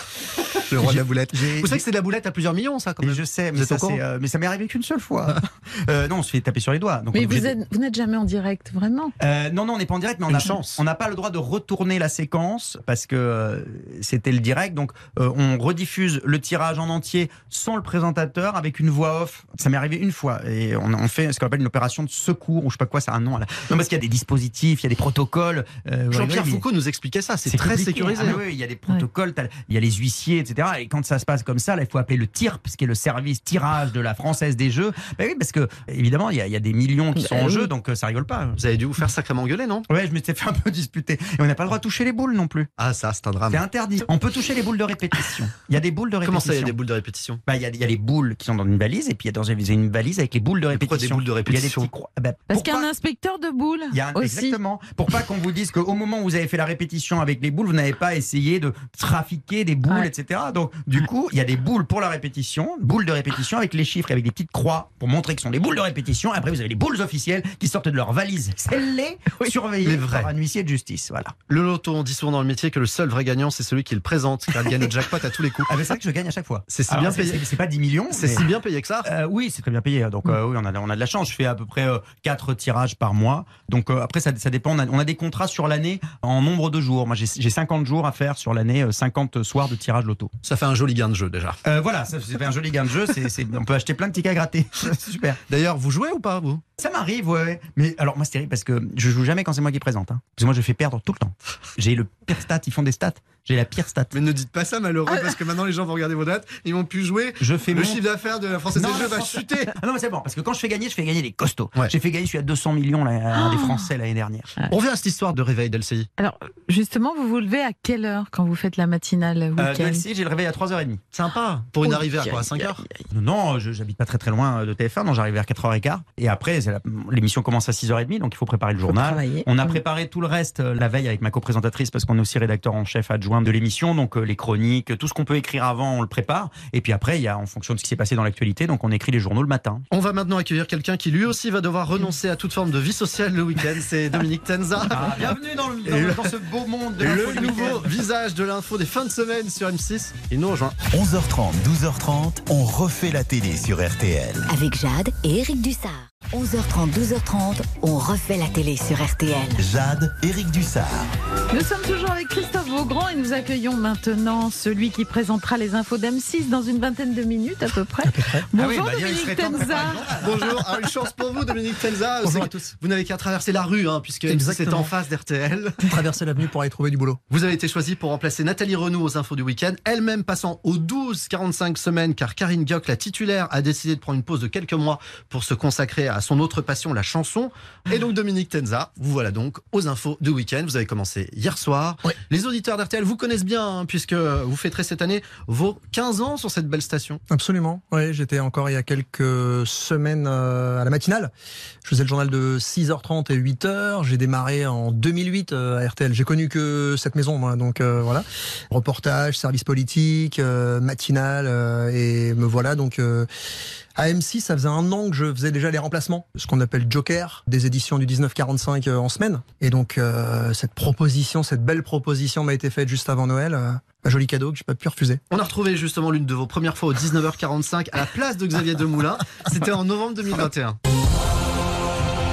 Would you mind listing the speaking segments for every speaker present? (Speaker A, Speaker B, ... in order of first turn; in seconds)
Speaker A: 0.7-4.0, 10.3-10.8, 26.1-28.4, 38.6-39.9, 42.8-43.6, 46.2-47.4, 50.7-51.9, 69.8-70.3, 71.5-75.7, 76.7-77.4, 78.1-79.1, 90.4-91.6, 95.5-96.6, 104.1-109.7, 114.7-116.1, 121.1-122.8, 139.9-145.2, 145.8-146.3, 147.0-150.8, 170.2-175.9, 177.3-197.2, 225.3-230.8
Speaker B: 0.7-1.8, 3.0-7.5, 9.2-26.6, 27.5-38.6, 39.9-42.7, 43.5-46.8, 47.5-52.9, 53.9-71.3, 75.7-78.5, 79.0-90.3, 91.6-95.4, 96.8-104.1, 107.4-108.0, 108.7-114.5, 119.6-121.0, 123.1-139.8, 144.9-147.9, 168.5-170.5
Speaker C: 7.1-9.1, 28.1-29.0, 37.1-37.7, 52.5-54.6, 113.3-113.9, 116.2-120.0, 121.8-123.0, 128.9-129.8, 161.5-170.1
Speaker D: 150.9-154.4, 159.6-161.1
Speaker E: 154.5-159.6
Speaker F: 168.0-168.5, 172.2-172.7, 174.3-174.9, 175.8-177.2, 197.3-201.3, 201.8-213.3, 213.9-225.2